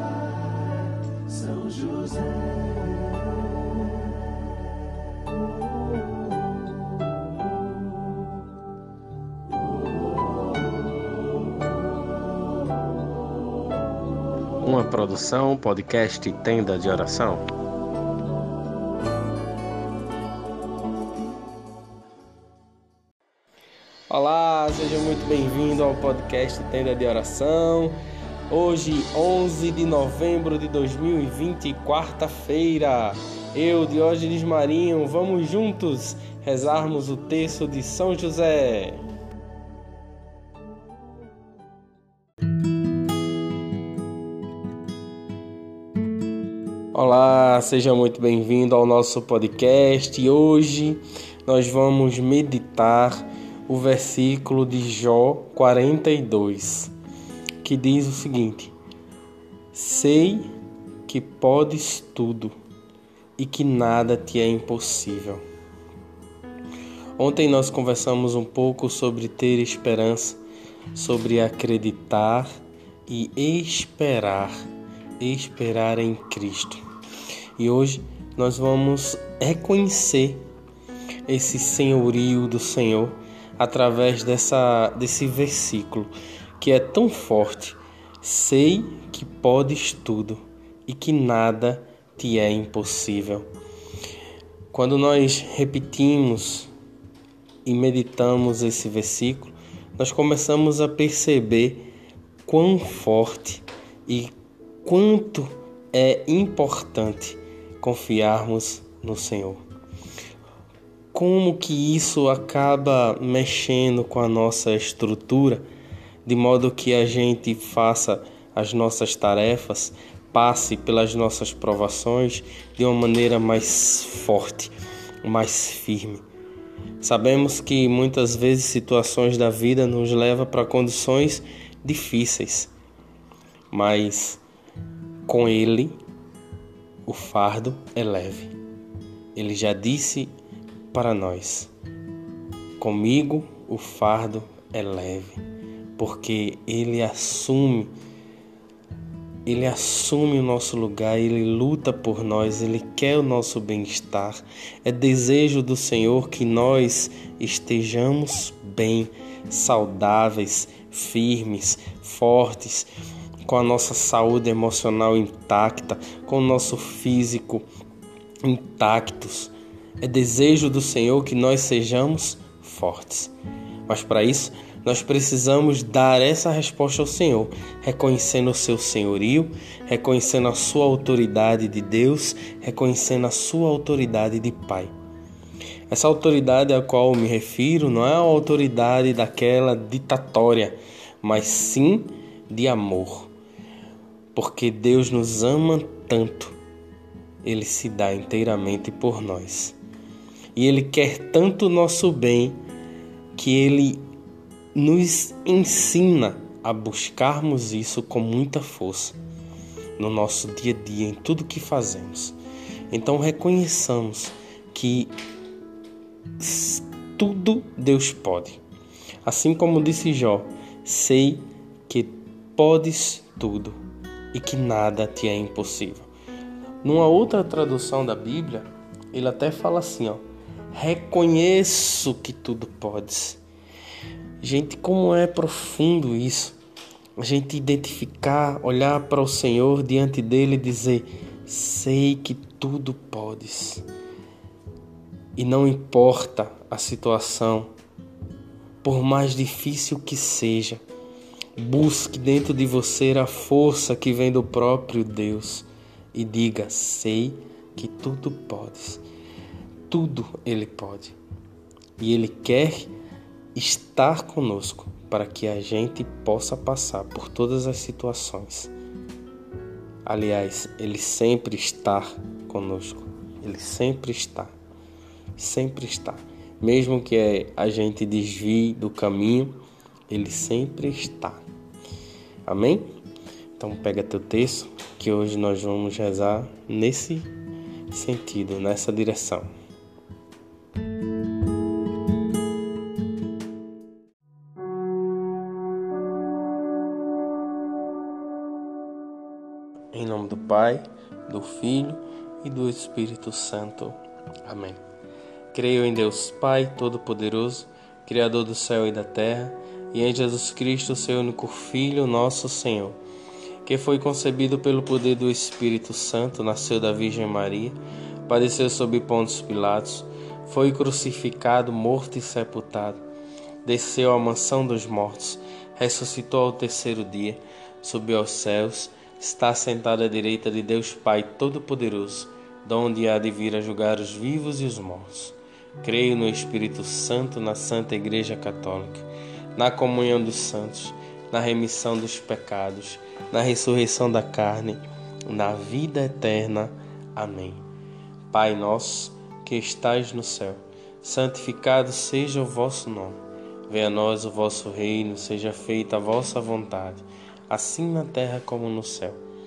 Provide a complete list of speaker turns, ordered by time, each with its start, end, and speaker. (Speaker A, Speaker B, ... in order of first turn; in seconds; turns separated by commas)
Speaker A: 14.6-17.5, Speaker A: 24.1-28.0, Speaker A: 28.5-39.0, Speaker A: 46.9-56.9, Speaker A: 57.6-58.7, Speaker A: 59.7-60.5, Speaker A: 61.1-62.5, Speaker A: 63.4-65.4, Speaker A: 67.2-70.4, Speaker A: 70.9-72.5, Speaker A: 73.1-74.6, Speaker A: 75.2-76.8, Speaker A: 77.6-80.4, Speaker A: 81.3-93.5, Speaker A: 94.7-96.7, Speaker A: 97.7-101.9, Speaker A: 102.5-104.3, Speaker A: 104.8-109.7, Speaker A: 111.1-115.6, Speaker A: 116.2-126.2, Speaker A: 127.0-132.7, Speaker A: 133.7-134.4, Speaker A: 135.3-136.0, Speaker A: 137.1-138.5, Speaker A: 139.3-140.3, Speaker A: 140.9-141.7, Speaker A: 142.8-145.4, Speaker A: 146.0-147.9, Speaker A: 149.5-162.9, Speaker A: 163.4-167.7, Speaker A: 168.4-173.3, Speaker A: 173.9-184.9, Speaker A: 185.9-193.3, Speaker A: 194.3-196.6, Speaker A: 197.4-199.8, Speaker A: 200.6-202.6, Speaker A: 203.4-204.0, Speaker A: 204.8-209.2, Speaker A: 210.0-212.4, Speaker A: 212.9-215.1, Speaker A: 216.4-218.6, Speaker A: 219.2-223.8, Speaker A: 224.3-226.1, Speaker A: 226.8-233.4, Speaker A: 234.4-236.6, Speaker A: 237.2-243.8, Speaker A: 245.4-247.7, Speaker A: 248.8-250.8, Speaker A: 251.6-259.0, Speaker A: 259.9-261.2, Speaker A: 262.0-262.9, Speaker A: 263.5-268.7, Speaker A: 270.1-274.5, Speaker A: 275.4-279.6, Speaker A: 280.1-281.4, Speaker A: 282.5-282.9, Speaker A: 283.6-287.3, Speaker A: 287.9-289.5, Speaker A: 299.9-304.8, Speaker A: 305.5-313.0, Speaker A: 313.6-323.0, Speaker A: 323.6-347.6, Speaker A: 348.3-359.2